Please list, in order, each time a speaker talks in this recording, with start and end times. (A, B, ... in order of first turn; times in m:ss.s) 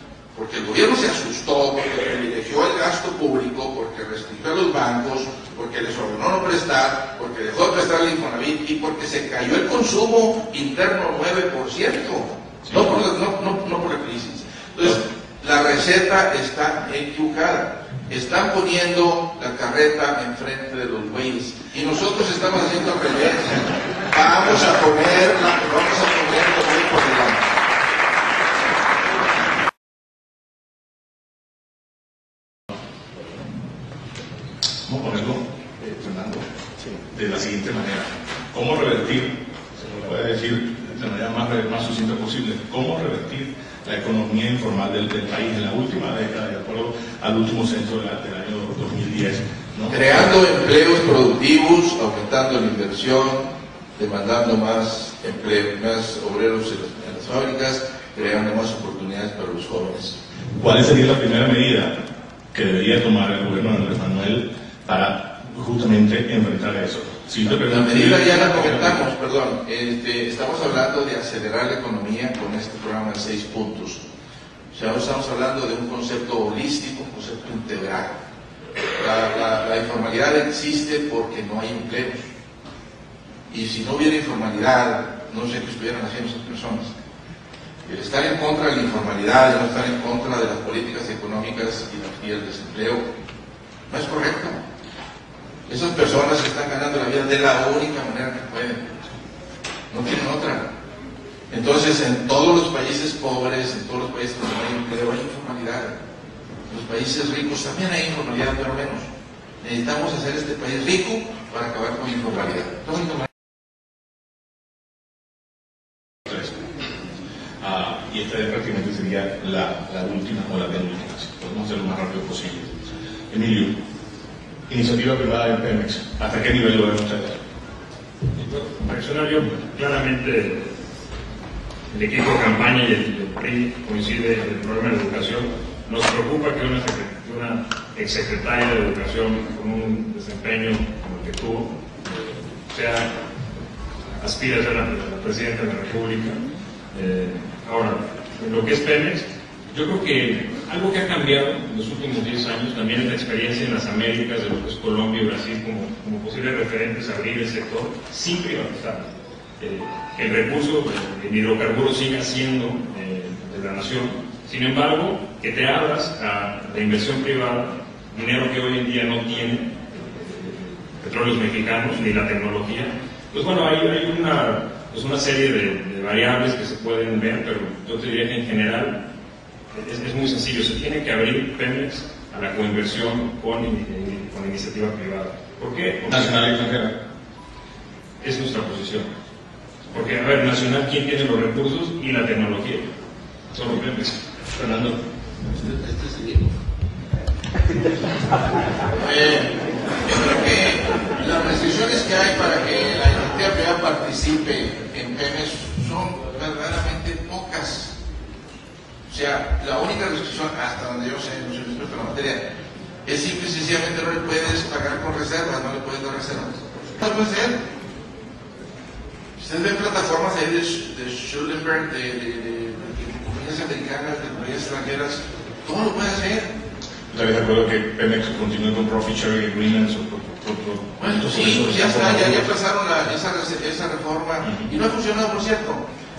0:00.3-0:27.5 A
0:12.6-0:13.0 B
0:34.9-0:36.4 B
0:37.1-0:50.3 B
0:49.9-0:53.5 A
0:54.0-1:00.2 A
1:00.6-1:02.0 B
1:02.5-1:09.0 B
1:07.7-1:14.0 A
1:14.7-1:18.2 A
1:19.0-1:22.3 A
1:23.5-1:26.9 A
1:27.8-1:33.0 A
1:33.9-1:34.6 A
1:35.7-1:39.0 A
1:39.9-1:40.7 A
1:41.5-1:46.0 A
1:46.7-1:49.1 A
1:49.6-1:53.3 A
1:56.3-1:56.6 B
1:57.6-2:02.7 B
2:03.3-2:03.7 B
2:04.7-2:07.4 B
2:08.3-2:10.7 C
2:11.9-2:23.1 C
2:24.2-2:26.4 C
2:26.9-2:59.0 C
2:59.7-3:06.6 C
3:06.1-3:06.9 B
3:08.2-3:09.1 C
3:09.9-3:12.9 C
3:13.5-3:14.2 C
3:14.6-3:15.0 B
3:15.7-3:16.3 A
3:19.0-3:28.0 A
3:29.1-3:32.4 A
3:33.1-3:37.6 A
3:39.4-3:46.5 A
3:47.1-3:52.5 B
3:51.0-3:55.9 A